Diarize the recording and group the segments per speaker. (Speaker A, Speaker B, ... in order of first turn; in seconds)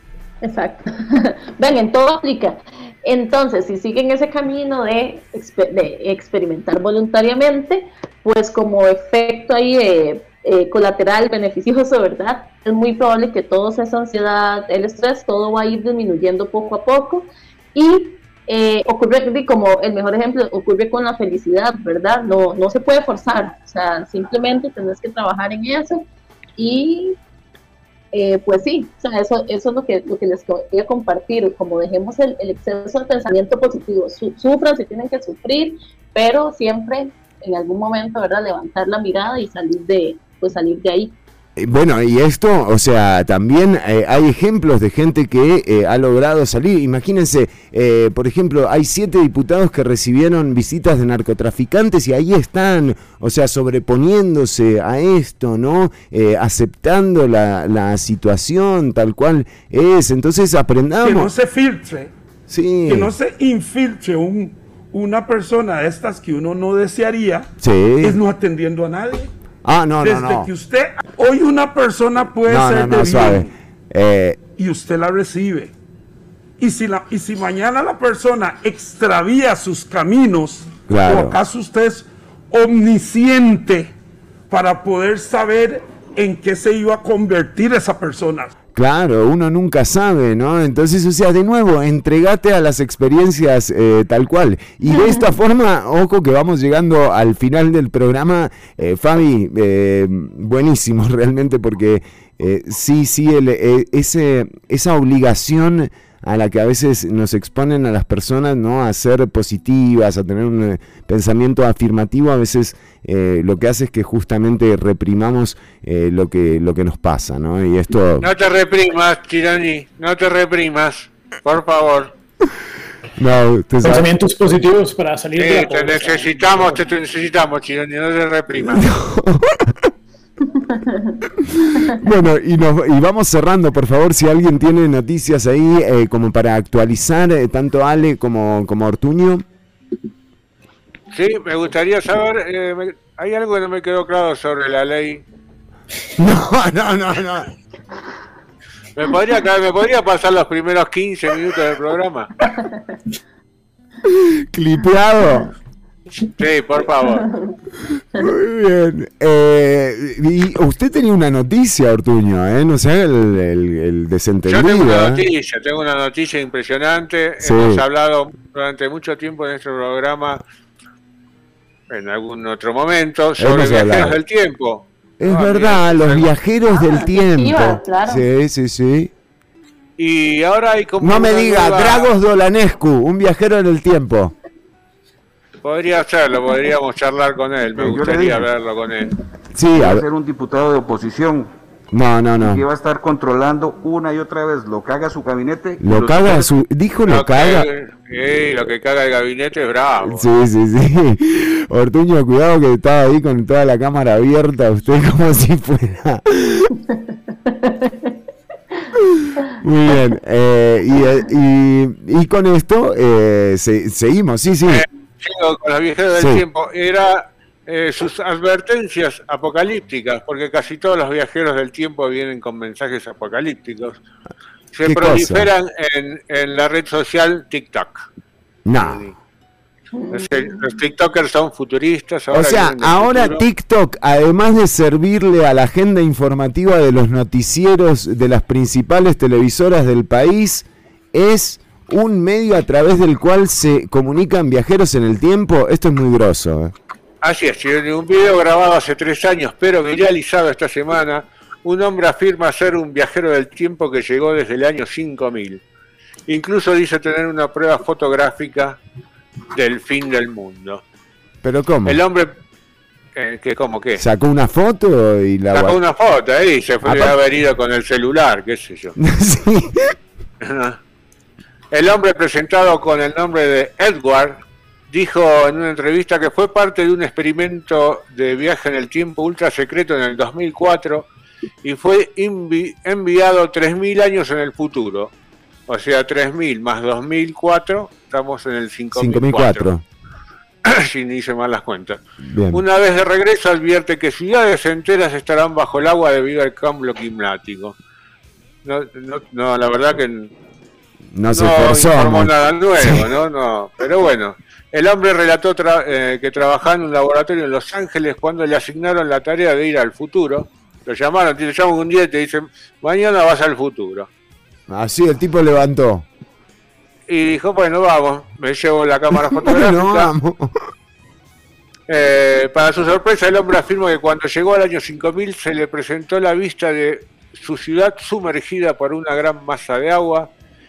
Speaker A: 0.4-26.0, 26.6-27.2, 28.1-41.1, 94.9-95.2, 152.4-152.7, 157.2-157.5, 176.7-178.2, 207.5-207.9, 230.0-230.6
Speaker B: 41.6-61.3, 62.5-63.1, 67.6-68.2, 69.7-70.5, 72.5-74.4, 80.9-81.3, 88.8-118.3, 123.2-124.1, 128.7-129.7, 131.8-139.4, 146.2-147.5, 154.1-155.5, 158.2-165.2, 167.4-167.8, 173.4-174.2, 175.2-179.1, 181.0-184.3, 188.0-188.4, 189.5-190.0, 191.9-192.7, 195.8-197.7, 200.0-206.7, 209.5-214.8, 216.1-216.4, 224.8-225.5, 228.7-229.1, 232.3-246.7, 261.4-262.0, 263.9-265.8, 266.8-267.2, 269.0-269.9, 288.9-289.8, 292.3-292.6, 301.1-303.1, 314.7-316.1, 319.3-320.5
Speaker C: 61.0-62.1, 62.9-67.5, 68.0-69.3, 70.0-73.5, 74.6-75.7, 76.6-83.9, 84.5-88.5
Speaker D: 118.2-122.1, 125.4-128.9, 141.1-145.2, 148.9-152.3, 156.4-157.2, 164.5-170.4, 171.9-176.3, 180.0-182.1, 185.6-189.1, 197.1-200.3, 214.7-224.0, 224.7-228.1, 228.8-229.2, 230.1-233.5, 247.2-255.6, 256.3-258.8, 259.6-260.8, 261.9-262.3, 263.1-264.0, 265.5-269.0, 270.4-270.8, 271.7-274.4, 274.9-281.1, 281.6-285.1, 285.7-289.7, 290.6-292.0, 292.5-297.8, 298.6-300.3, 301.3-314.1, 317.1-320.1, 321.9-330.3
Speaker E: 123.8-126.8
Speaker F: 187.8-188.4, 189.7-191.5, 192.4-196.5